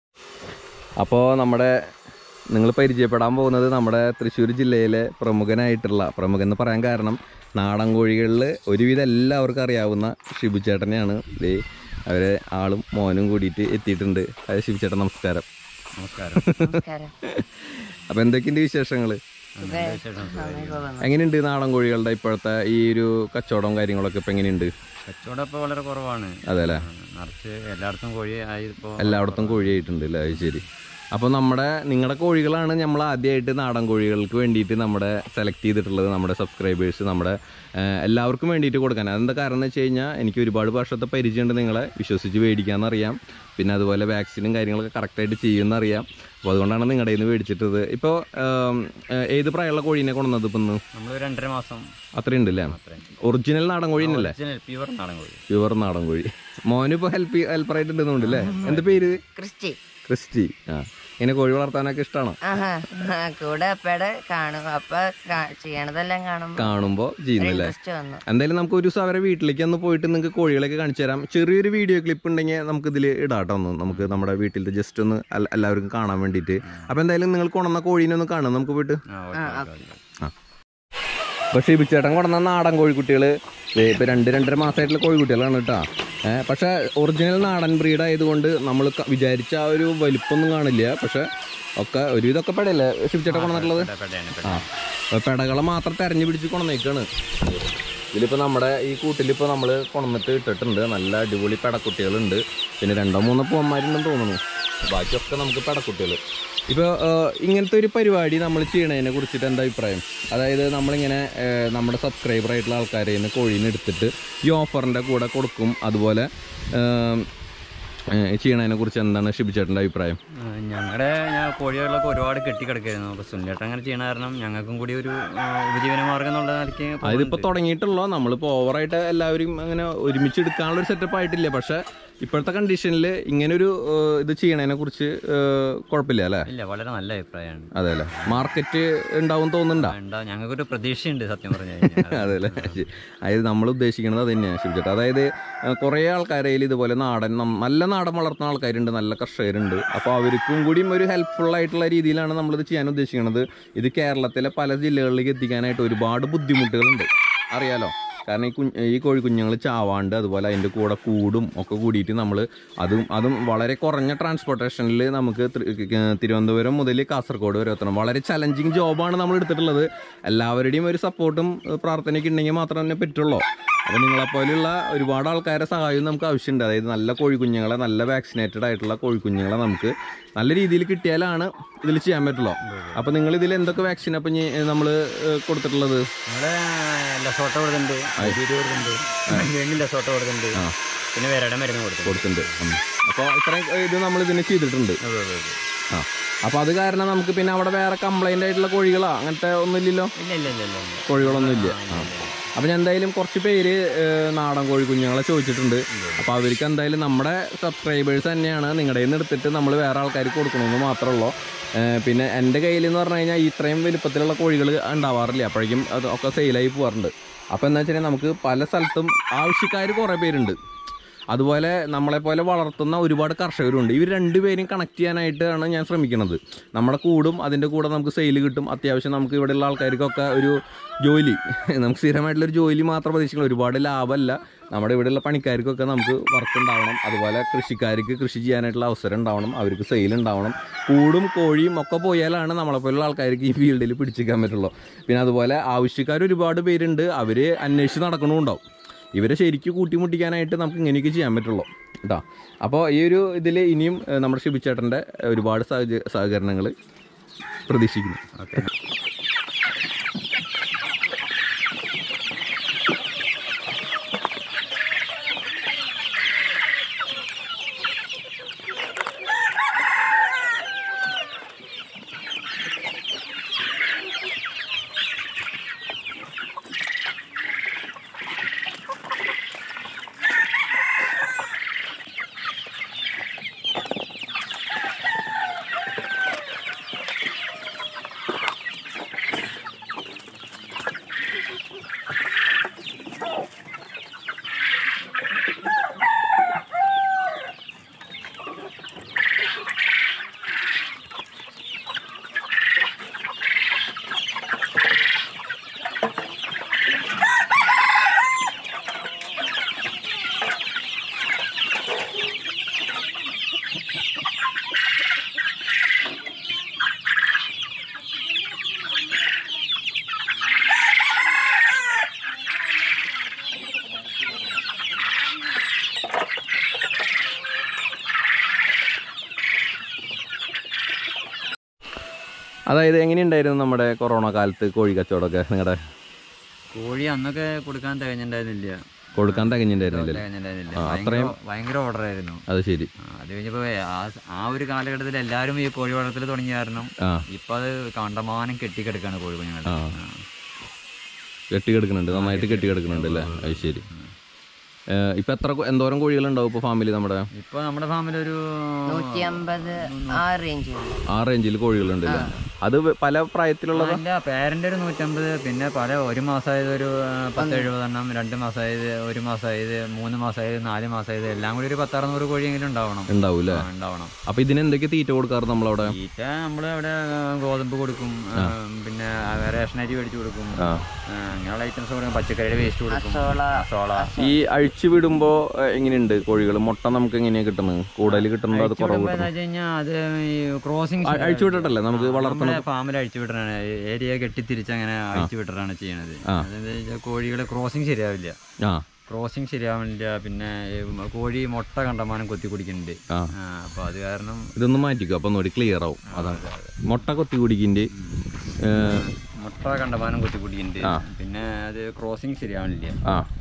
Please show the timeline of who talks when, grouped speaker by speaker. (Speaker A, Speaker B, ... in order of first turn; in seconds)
Speaker A: 1.0-1.9, 2.5-15.4, 16.3-19.2, 21.0-24.7, 26.4-26.8, 29.0-30.6, 31.1-50.8, 52.2-54.3, 55.5-59.2, 60.0-62.4, 66.5-67.8, 68.2-79.0, 81.5-91.3, 91.8-93.9, 94.4-117.3, 118.1-120.2, 127.0-136.5, 137.8-139.9, 141.8-186.0, 192.0-195.0, 195.9-200.1, 201.1-220.6, 221.3-248.6, 249.2-256.7, 257.6-258.3, 332.7-335.8, 339.2-341.4, 342.5-342.9, 347.0-347.2, 349.6-350.0, 351.5-353.9, 354.9-357.3, 361.1-364.0, 373.1-373.6, 374.3-376.0, 380.6-380.8, 384.2-389.3, 391.0-392.6, 404.6-407.9, 408.6-409.0
Speaker B: 16.0-16.5, 19.6-20.9, 25.0-30.6, 50.9-51.8, 52.5-53.2, 54.0-55.4, 58.2-59.2, 73.9-74.2, 79.1-80.0, 93.3-94.7, 120.3-127.5, 136.5-138.5, 139.8-142.8, 182.6-183.0, 186.3-190.6, 191.2-192.8, 195.0-195.6, 200.2-202.5, 205.9-206.3, 258.4-258.7, 336.7-342.4, 343.0-350.2, 352.1-354.1, 357.3-360.2, 362.0-362.4, 363.7-374.1, 375.8-384.1, 388.0-398.4, 399.1-404.5, 406.1-406.8, 408.0-413.0
Speaker C: 16.6-17.1, 19.6-21.1, 58.5-59.8, 62.4-66.7, 67.4-68.2, 79.3-79.8, 358.9-361.0, 367.4-367.7, 382.9-384.4